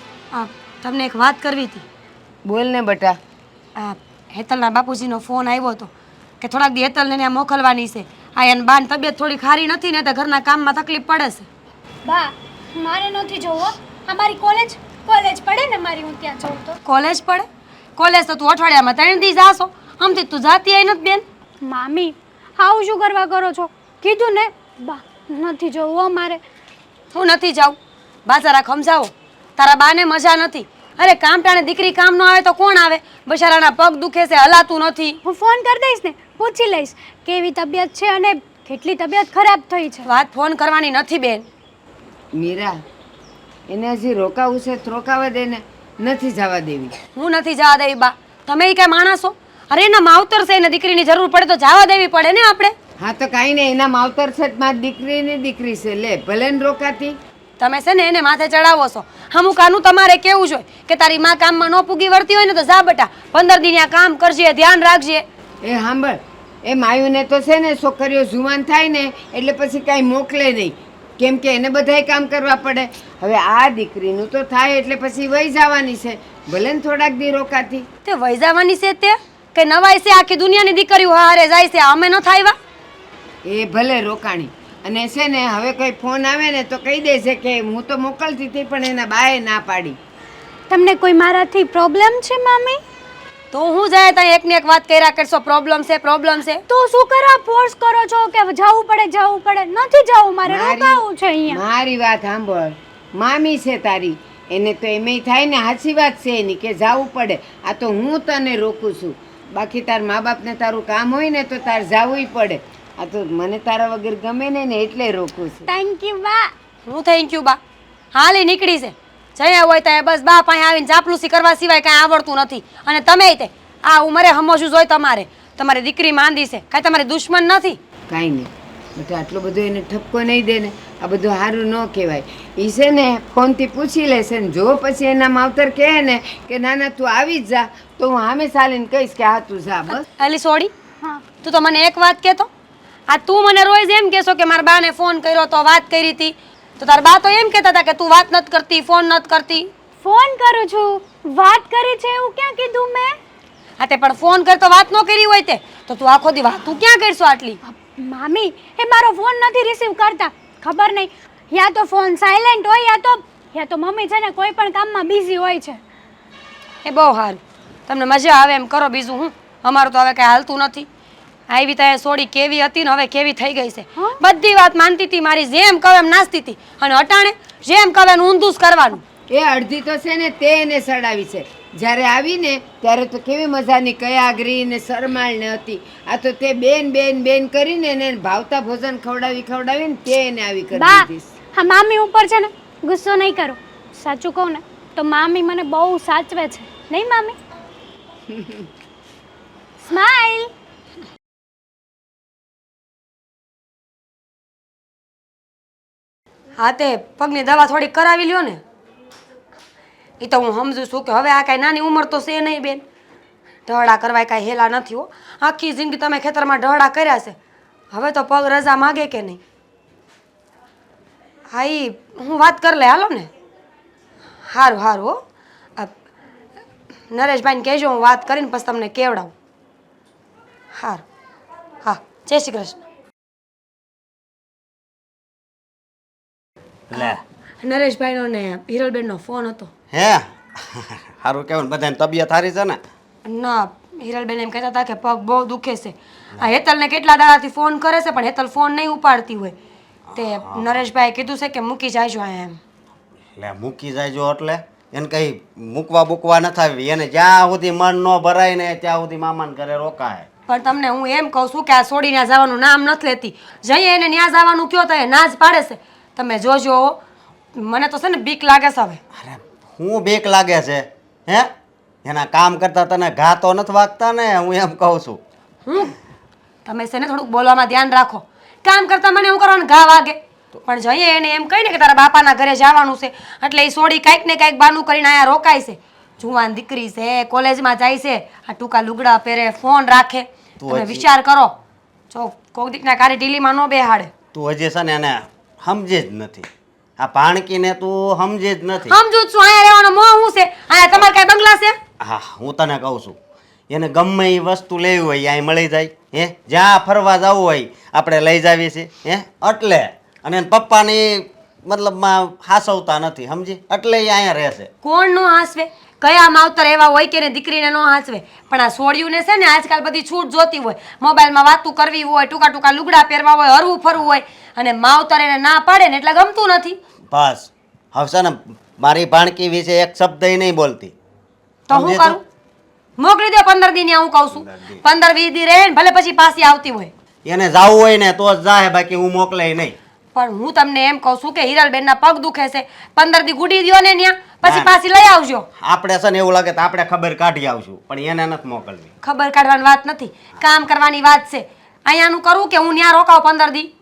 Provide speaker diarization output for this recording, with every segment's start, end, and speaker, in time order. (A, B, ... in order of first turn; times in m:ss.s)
0:00.3-0:01.8 A
0:02.4-0:03.2 B
0:03.8-0:11.5 A
0:12.0-0:16.8 C
0:16.8-0:17.4 A
0:18.0-0:21.2 A
0:21.6-0:26.4 C
0:27.1-0:35.2 A
0:35.2-0:40.1 C
0:40.0-0:41.5 A
0:42.3-0:42.8 B
0:43.7-0:46.9 B
0:47.2-0:52.7 A
0:53.0-0:57.2 B
0:57.6-1:05.2 A
1:05.6-1:17.8 B
1:18.0-1:22.6 A
1:23.4-1:30.0 B
1:30.7-1:32.8 C
1:33.5-1:36.6 A
1:36.7-1:41.6 C
1:40.4-1:55.7 B
1:55.7-1:56.5 C
1:56.8-1:57.6 A
1:58.1-2:07.8 A
2:08.1-2:20.0 B
2:19.9-2:20.7 A
2:21.4-2:22.5 A
2:23.1-2:29.7 A
2:30.0-2:33.2 C
2:33.8-2:37.6 A
2:37.6-2:45.8 C
2:46.8-2:50.9 A
2:51.5-2:59.0 A
2:59.3-3:11.4 B
3:10.7-3:17.4 C
3:18.3-3:18.7 B
3:19.8-3:20.5 C
3:26.6-3:28.6 A
3:30.2-3:32.8 A
3:33.7-3:37.3 A
3:37.9-3:39.4 A
3:41.5-3:43.3 A
3:44.5-3:45.2 A
3:47.1-3:49.3 A
3:50.7-3:51.0 A
3:51.8-3:52.8 A
3:56.9-3:57.2 D
3:56.9-3:59.7 A
3:59.9-4:02.8 D
4:03.2-4:09.6 A
4:10.1-4:10.8 D
4:10.1-4:12.6 A
4:13.4-4:20.3 D
4:20.5-4:27.0 A
4:27.6-4:29.0 A
4:29.1-4:31.5 D
4:32.0-4:35.2 D
4:35.7-4:35.9 A
4:36.6-4:51.5 A
4:50.6-4:51.0 D
4:52.1-4:54.1 A
4:54.3-4:56.5 D
4:57.0-4:59.0 D
4:58.9-5:01.8 A
5:02.0-5:03.2 D
5:03.7-5:14.7 D
5:14.8-5:26.8 A
5:27.1-5:30.9 D
5:31.7-5:32.2 A
5:31.7-5:32.2 D
5:33.0-5:36.9 A
5:34.4-5:34.8 D
5:37.2-5:39.8 D
5:40.1-5:45.5 A
5:44.4-5:44.7 D
5:45.6-5:48.9 D
5:49.0-5:53.7 A